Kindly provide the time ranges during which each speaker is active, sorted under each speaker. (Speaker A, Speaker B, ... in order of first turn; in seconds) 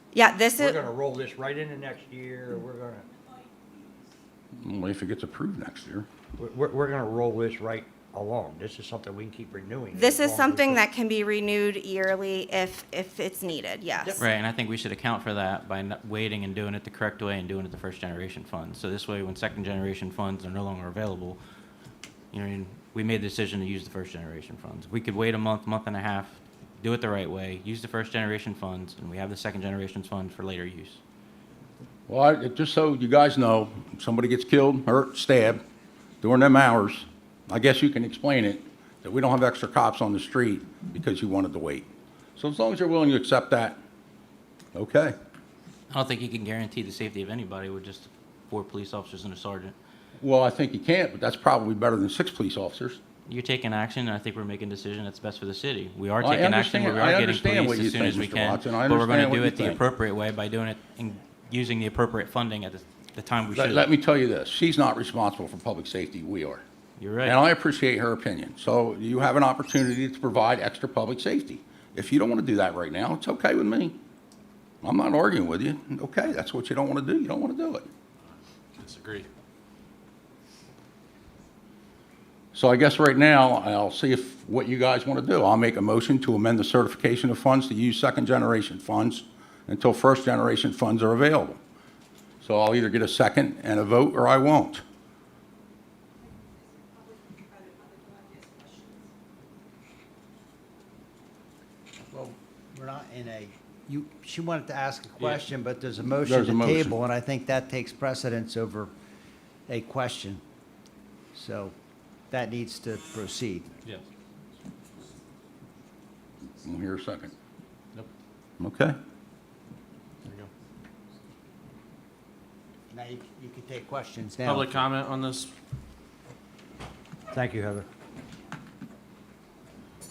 Speaker A: 0.1-0.8, 9.9-14.2
Speaker B: 0.6-3.0, 6.4-10.8
Speaker C: 4.6-6.1, 32.1-35.6, 36.2-43.8, 44.7-45.1, 50.2-53.0, 56.2-59.8, 63.5-66.6, 67.2-73.9, 74.8-77.9, 82.5-91.6, 92.4-94.8, 106.2-106.9, 116.6-117.3, 118.6-118.9
Speaker D: 14.2-21.4, 22.3-31.0, 45.9-49.7, 53.3-63.8, 67.0-67.3
Speaker E: 78.2-79.3, 120.2-120.5, 124.4-125.5
Speaker F: 102.1-108.9, 109.7-110.4, 111.3-111.7, 112.3-113.7, 122.9-124.8, 127.3-127.9